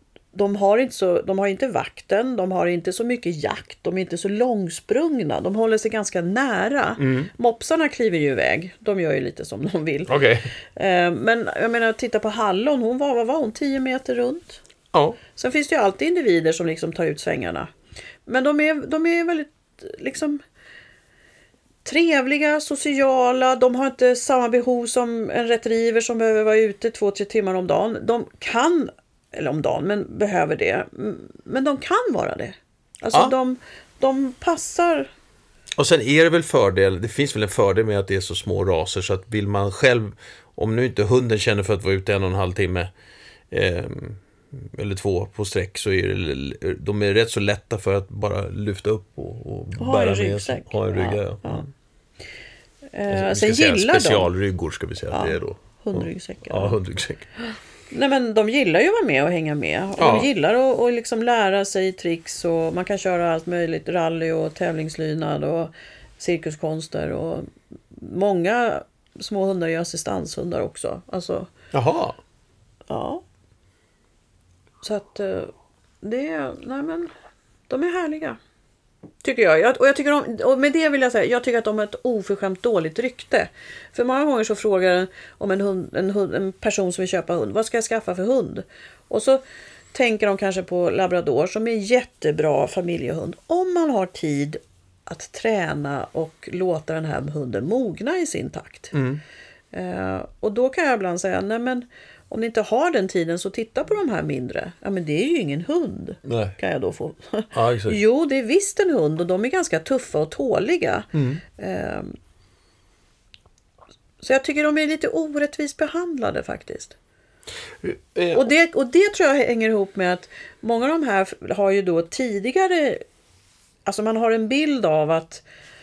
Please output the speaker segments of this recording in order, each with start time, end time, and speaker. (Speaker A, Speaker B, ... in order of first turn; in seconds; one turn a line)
Speaker A: 0.3-10.1
Speaker B: 7.0-7.3
Speaker B: 10.1-10.5
Speaker A: 10.8-14.6
Speaker B: 14.9-15.2
Speaker A: 15.3-17.7
Speaker A: 18.3-20.4
Speaker A: 21.8-35.1
Speaker B: 35.8-42.9
Speaker B: 43.5-51.7
Speaker A: 49.8-51.6
Speaker A: 52.9-54.3
Speaker B: 53.1-57.3
Speaker A: 55.1-56.8
Speaker A: 57.9-71.5
Speaker B: 60.0-60.3
Speaker B: 71.7-72.2
Speaker A: 72.9-73.2
Speaker A: 74.8-77.1
Speaker A: 77.7-78.4
Speaker A: 79.2-89.4
Speaker A: 89.9-98.9
Speaker B: 98.9-99.2
Speaker A: 99.7-112.2
Speaker B: 106.2-106.5
Speaker B: 107.5-108.0
Speaker B: 111.1-111.4
Speaker A: 114.2-117.0
Speaker B: 117.8-118.5
Speaker A: 118.3-123.0
Speaker A: 123.8-125.4